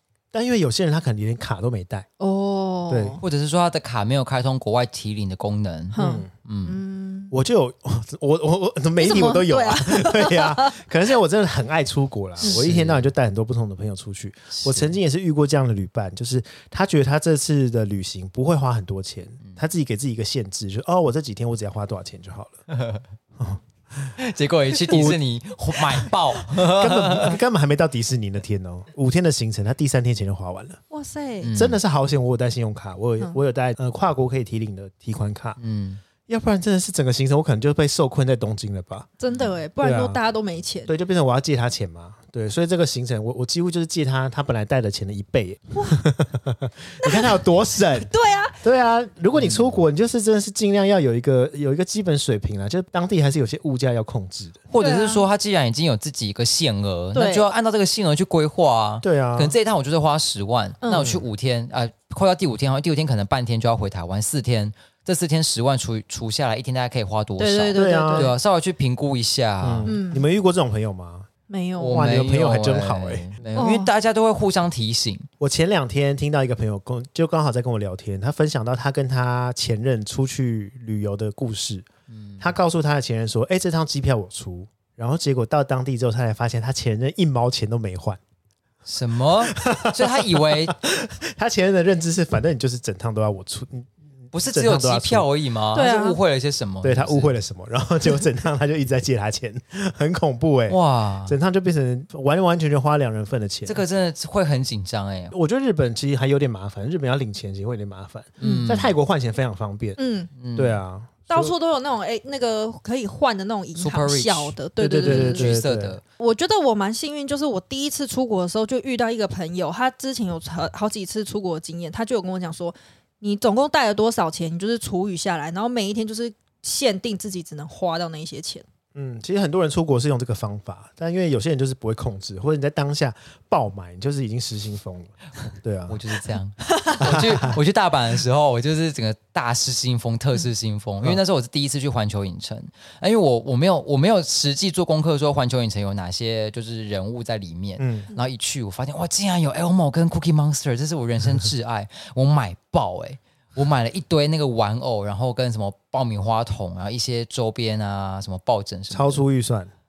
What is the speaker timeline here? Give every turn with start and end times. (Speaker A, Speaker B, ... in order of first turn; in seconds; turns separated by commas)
Speaker A: 0.3-2.1, Speaker B: 2.2-3.2, Speaker A: 2.9-3.2, Speaker C: 3.2-6.8, Speaker B: 5.9-7.3, Speaker A: 6.0-6.3, Speaker A: 7.3-22.6, Speaker B: 9.0-10.8, Speaker C: 12.4-13.1, Speaker C: 14.5-14.9, Speaker C: 22.7-23.0, Speaker A: 23.4-24.1, Speaker C: 24.2-27.4, Speaker A: 24.8-25.2, Speaker A: 25.8-30.8, Speaker B: 30.9-31.5, Speaker C: 31.4-31.8, Speaker A: 31.5-35.6, Speaker C: 35.6-36.0, Speaker A: 36.3-39.1, Speaker B: 39.2-40.9, Speaker A: 39.8-40.2, Speaker A: 40.9-48.1, Speaker B: 45.7-46.0, Speaker B: 47.0-47.4, Speaker B: 48.0-48.6, Speaker A: 48.6-54.6, Speaker C: 49.3-49.7, Speaker C: 54.7-70.0, Speaker B: 54.8-55.2, Speaker B: 57.1-57.5, Speaker A: 59.0-59.5, Speaker B: 60.8-61.1, Speaker A: 60.9-61.2, Speaker B: 67.4-68.3, Speaker A: 67.7-68.3, Speaker A: 69.6-71.3, Speaker B: 69.8-70.2, Speaker B: 71.5-72.0, Speaker C: 71.8-75.3, Speaker A: 71.9-73.4, Speaker B: 73.5-73.9, Speaker A: 75.4-81.9, Speaker C: 82.1-82.5, Speaker A: 82.4-88.2, Speaker C: 88.8-90.7, Speaker A: 89.5-93.9, Speaker C: 94.3-97.3, Speaker A: 94.5-95.3, Speaker B: 95.7-96.2, Speaker A: 96.8-103.8, Speaker C: 100.7-101.3, Speaker C: 103.7-105.3, Speaker A: 105.3-110.0, Speaker C: 108.4-108.9, Speaker B: 108.4-108.8, Speaker B: 110.0-110.3, Speaker C: 110.4-110.8, Speaker A: 110.5-111.5, Speaker B: 111.3-115.6, Speaker C: 113.8-116.0, Speaker A: 114.8-116.0, Speaker B: 116.2-128.6, Speaker A: 128.9-136.0, Speaker C: 135.9-159.2, Speaker A: 137.0-137.6, Speaker A: 147.8-148.1, Speaker A: 158.9-159.7